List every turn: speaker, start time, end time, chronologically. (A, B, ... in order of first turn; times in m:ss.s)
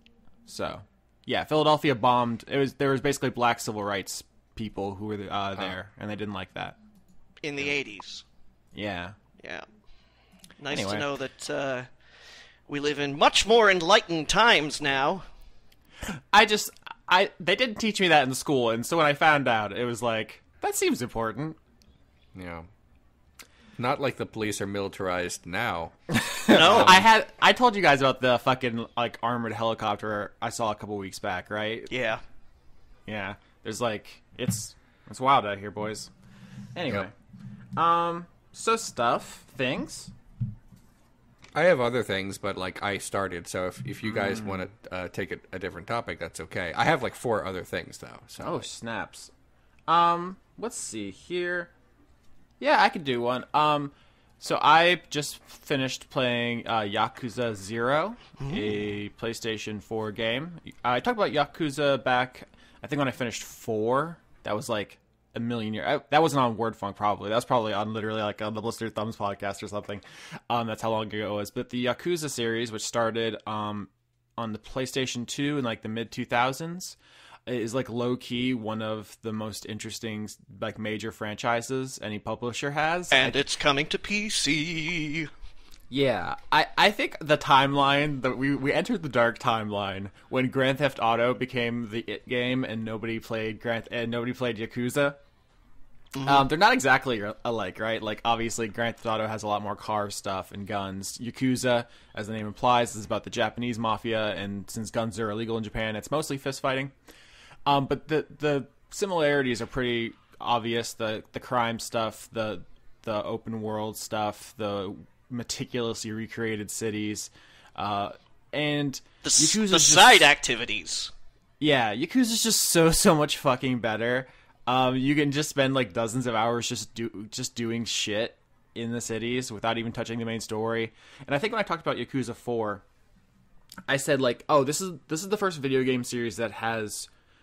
0:00.5-0:06.8 A
0:07.4-0:08.2 B
0:08.7-0:09.2 A
0:09.4-0:09.6 B
0:10.6-0:11.9 B
0:10.7-0:11.0 A
0:12.7-0:15.2 B
0:16.1-0:21.6 A
0:22.4-0:22.7 C
0:23.8-0:25.9 C
0:26.1-0:31.9 A
0:26.5-0:27.0 B
0:26.5-0:27.0 C
0:31.9-0:32.2 B
0:33.1-0:36.1 A
0:36.8-0:37.1 A
0:37.8-0:40.1 A
0:41.5-0:48.6 C
0:44.2-0:44.6 A
0:48.4-0:49.3 A
0:49.9-0:51.7 A
0:52.6-1:23.4 A
1:23.1-1:25.3 B
1:25.9-1:35.2 A
1:36.1-1:36.4 B
1:36.2-1:46.9 A
1:47.6-2:00.3 A
1:59.2-2:01.1 B
2:01.6-2:12.8 A
2:13.9-2:17.1 A